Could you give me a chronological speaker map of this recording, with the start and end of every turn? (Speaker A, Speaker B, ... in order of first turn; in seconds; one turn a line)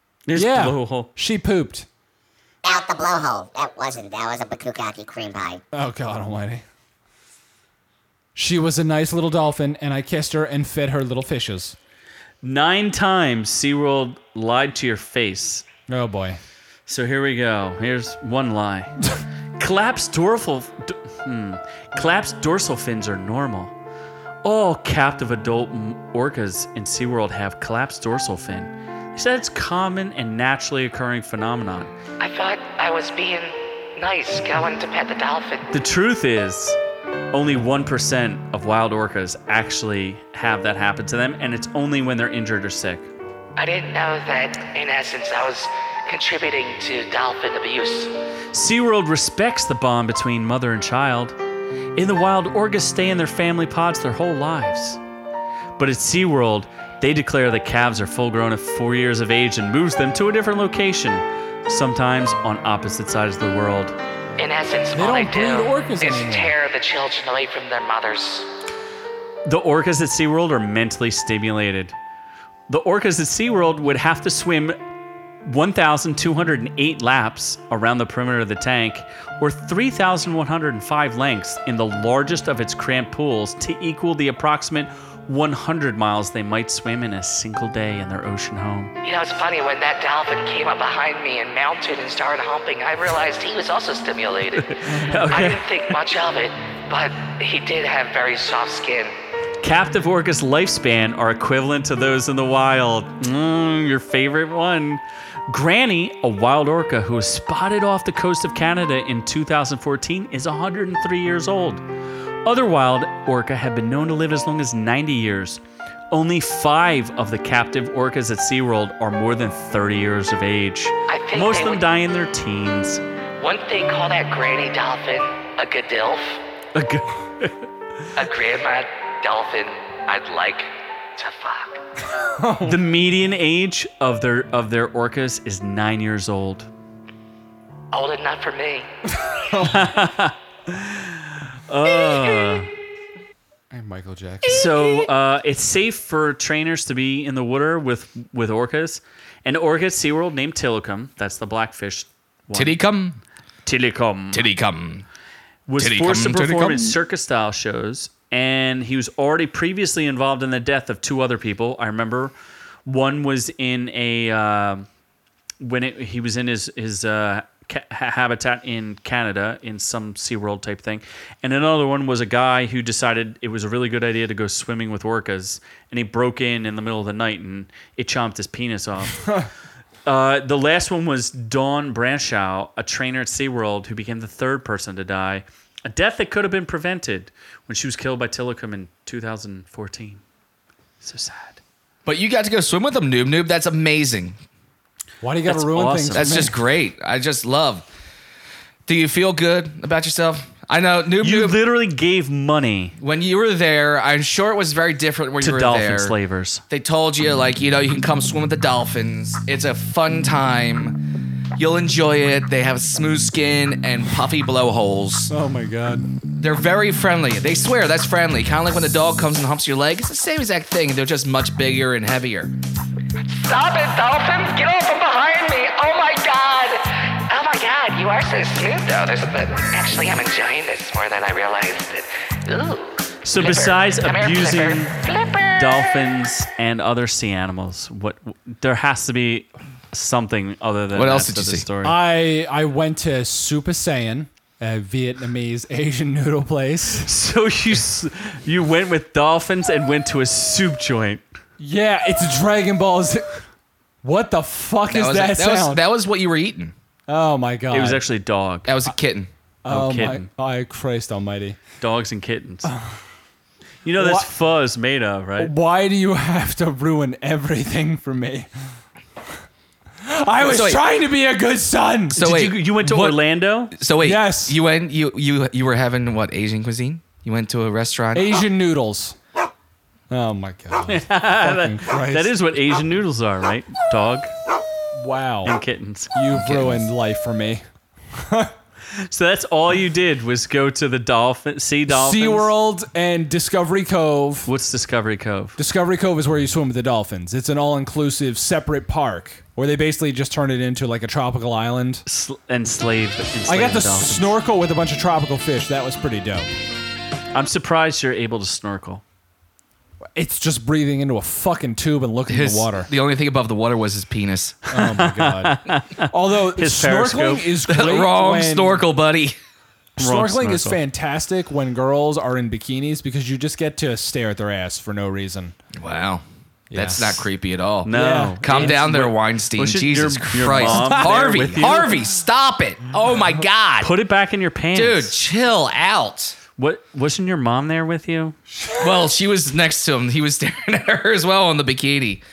Speaker A: 0.3-1.1
Speaker B: 0.3-1.9
Speaker C: 2.6-5.6
Speaker B: 5.7-6.7
Speaker B: 8.3-11.8
Speaker A: 12.4-15.7
Speaker B: 15.9-16.4
Speaker A: 16.9-19.0
Speaker A: 19.6-23.7
Speaker A: 24.4-31.9
Speaker D: 32.2-35.7
Speaker A: 35.7-36.8
Speaker A: 37.3-43.1
Speaker D: 43.6-48.1
Speaker A: 48.5-51.4
Speaker A: 52.0-55.0
Speaker A: 55.8-64.0
Speaker D: 64.4-68.5
Speaker B: 64.9-66.5
Speaker A: 69.5-72.0
Speaker A: 72.7-74.8
Speaker A: 75.5-88.9
Speaker D: 89.0-99.1
Speaker A: 94.6-95.6
Speaker A: 99.6-111.8
Speaker A: 112.5-123.0
Speaker D: 121.1-121.9
Speaker D: 123.4-126.4
Speaker A: 126.7-127.7
Speaker D: 128.2-131.8
Speaker B: 132.4-132.8
Speaker A: 132.6-136.7
Speaker D: 137.9-138.9
Speaker B: 139.3-139.9
Speaker A: 139.6-142.7
Speaker D: 142.0-142.4
Speaker B: 143.7-144.6
Speaker A: 144.5-152.8
Speaker E: 152.5-153.2
Speaker A: 153.7-154.5
Speaker E: 154.3-155.1
Speaker A: 155.7-162.3
Speaker E: 155.8-157.0
Speaker A: 162.9-164.9
Speaker A: 165.6-179.3
Speaker B: 179.2-179.5
Speaker A: 180.1-190.2
Speaker A: 191.0-191.6
Speaker E: 192.1-194.4
Speaker B: 195.2-196.6
Speaker A: 195.5-196.3
Speaker E: 196.2-197.8
Speaker E: 198.9-201.6
Speaker A: 201.2-203.0
Speaker E: 203.0-206.2
Speaker A: 205.4-206.6
Speaker E: 206.7-215.3
Speaker B: 215.3-216.1
Speaker E: 216.4-222.5
Speaker D: 223.2-236.0
Speaker A: 233.2-234.9
Speaker A: 235.6-242.0
Speaker E: 240.9-241.7
Speaker B: 241.8-247.1
Speaker A: 247.1-251.2
Speaker B: 251.6-253.4
Speaker B: 254.0-255.8
Speaker E: 254.9-256.7
Speaker B: 257.1-258.1
Speaker A: 257.7-258.7
Speaker E: 258.7-259.3
Speaker B: 259.6-261.6
Speaker A: 259.7-260.3
Speaker A: 261.8-262.7
Speaker B: 262.6-263.0
Speaker A: 263.9-265.5
Speaker B: 264.0-264.3
Speaker B: 265.4-268.5
Speaker B: 270.0-272.2
Speaker E: 270.4-270.8
Speaker A: 272.1-273.7
Speaker E: 272.1-278.4
Speaker B: 274.0-274.6
Speaker B: 278.1-279.2
Speaker B: 280.1-282.3
Speaker A: 280.9-284.3
Speaker B: 284.9-285.5
Speaker A: 285.4-286.1
Speaker B: 286.1-288.5
Speaker E: 286.3-286.9
Speaker A: 288.9-292.5
Speaker B: 291.9-294.5
Speaker A: 294.5-295.6
Speaker B: 295.6-302.0
Speaker A: 302.1-304.3
Speaker B: 303.5-306.5
Speaker A: 307.3-309.0
Speaker B: 310.1-312.9
Speaker E: 312.3-314.6
Speaker B: 314.7-318.8
Speaker A: 314.7-317.5
Speaker E: 317.7-319.4
Speaker B: 320.0-325.6
Speaker A: 320.0-320.8
Speaker E: 325.8-327.9
Speaker B: 326.7-327.2
Speaker A: 327.9-332.0
Speaker B: 327.9-329.0
Speaker E: 328.4-333.9
Speaker B: 330.5-331.5
Speaker A: 333.8-335.1
Speaker E: 334.7-336.4
Speaker A: 336.6-338.4
Speaker B: 338.6-338.9
Speaker E: 338.8-342.2